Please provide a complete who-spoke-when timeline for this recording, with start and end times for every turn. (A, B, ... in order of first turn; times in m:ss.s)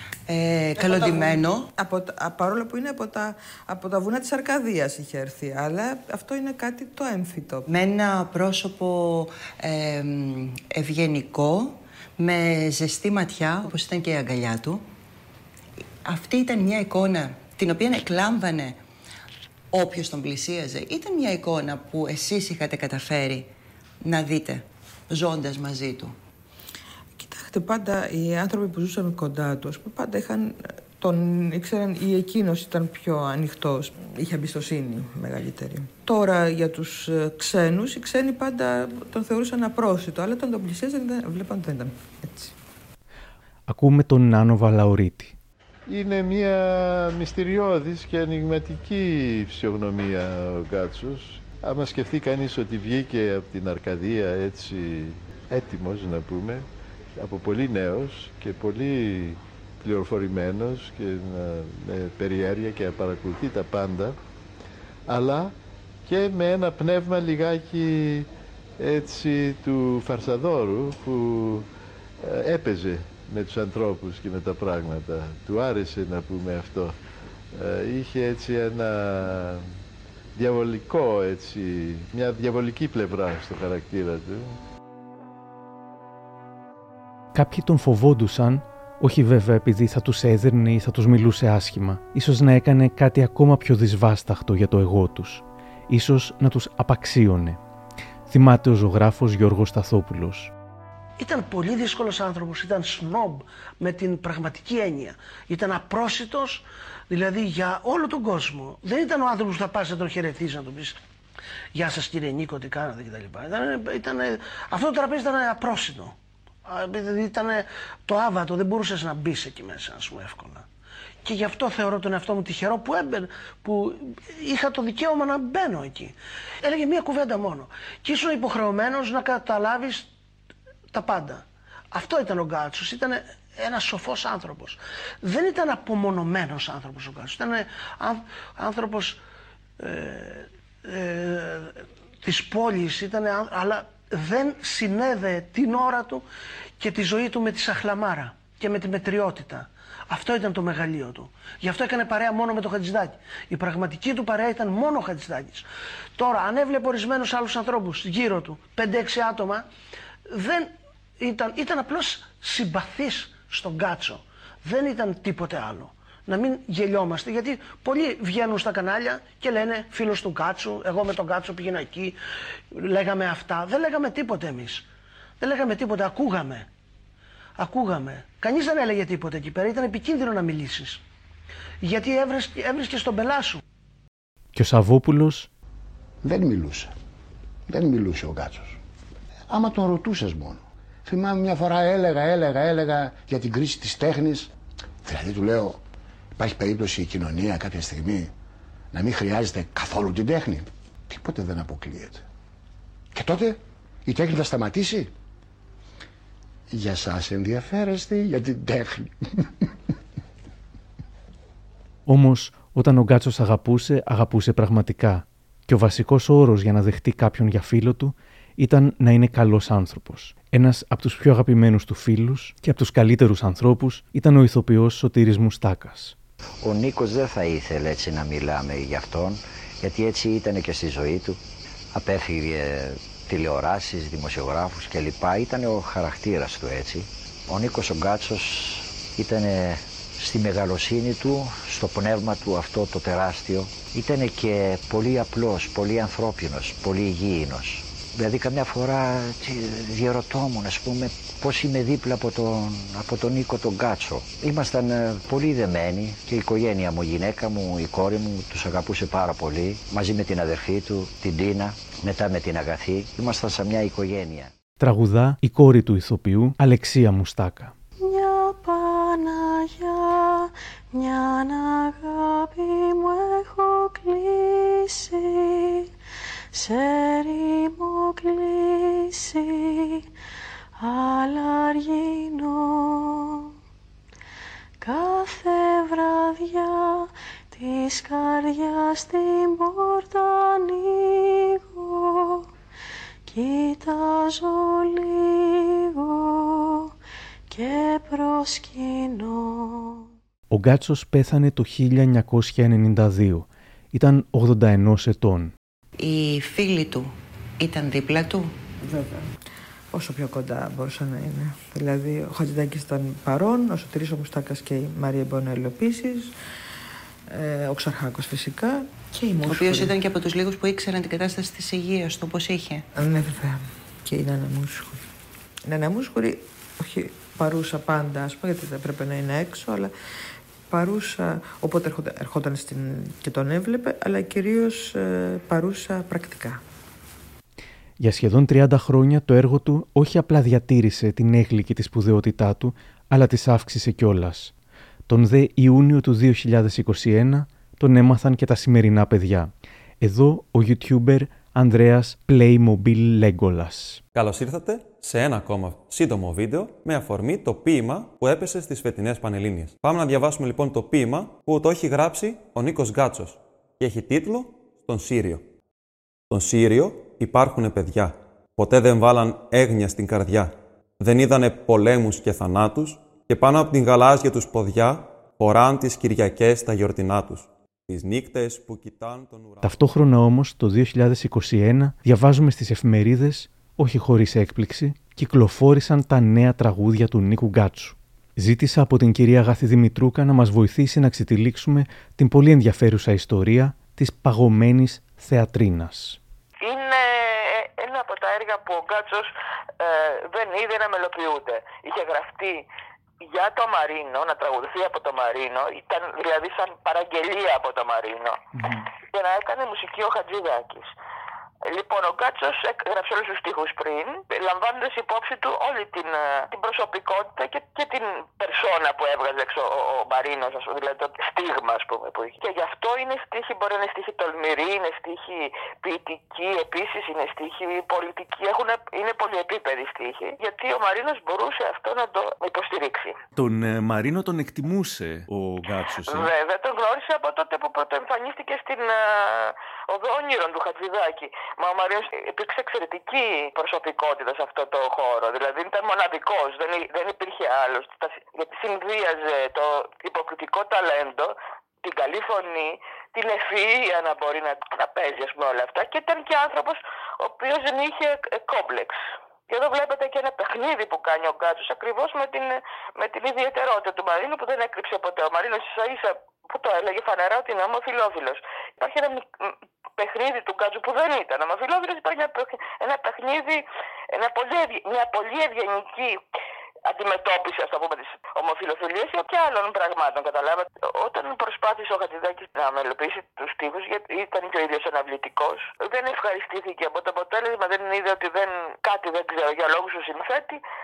0:00.3-0:01.7 A
0:00.9-0:07.6 B
0:07.7-0:14.8 A
0:16.0-0:18.8 A
0:19.7-0:23.5 A
0:24.0-0:26.1 A
0:27.3-0:30.5 B
0:31.0-0:42.5 B
0:43.7-0:45.3 C
0:45.9-0:56.6 D
0:57.2-1:04.2 D
1:05.1-1:05.5 D
1:06.0-1:08.3 D
1:08.8-1:11.7 D
1:12.2-1:17.0 D
1:17.5-1:19.7 D
1:20.3-1:24.6 D
1:27.3-1:37.6 C
1:38.3-1:40.5 C
1:41.2-1:51.0 E
1:51.7-2:00.7 E
2:01.2-2:10.1 E
2:10.9-2:19.2 E
2:19.8-2:26.2 E
2:26.8-2:39.6 E
2:40.3-2:52.2 E
2:52.7-2:54.8 E
2:55.4-2:56.7 E
2:57.6-3:01.0 E
3:01.8-3:03.6 E
3:04.5-3:05.5 C
3:06.2-3:06.9 F
3:07.7-3:08.8 F
3:09.5-3:14.5 F
3:15.0-3:15.8 F
3:16.4-3:18.3 F
3:18.9-3:22.2 F
3:23.1-3:25.1 F
3:26.7-3:29.7 F
3:32.1-3:46.1 C
3:46.6-3:51.4 G
3:51.9-4:24.5 G
4:24.8-4:27.7 C
4:28.0-4:35.9 H
4:36.5-4:40.1 H
4:40.8-4:43.5 H
4:44.8-4:52.4 H
4:53.3-4:56.9 H
4:57.5-5:00.1 H
5:00.5-5:05.5 C
5:06.0-5:07.1 A
5:07.6-5:08.5 A
5:09.9-5:16.2 B
5:17.7-5:19.9 B
5:19.4-5:22.8 A
5:23.0-5:24.9 B
5:25.7-5:29.9 B
5:30.7-5:34.9 B
5:35.4-5:36.5 B
5:38.0-5:44.5 C
5:45.1-5:54.0 C
5:54.2-6:05.4 I
6:06.3-6:19.6 I
6:19.6-6:36.2 C
6:36.6-6:42.6 J
6:43.2-6:48.4 J
6:49.1-6:50.9 J
6:51.6-7:13.2 J
7:13.4-7:16.3 K
7:16.1-7:39.0 J
7:39.5-7:56.2 J
7:56.9-8:10.6 J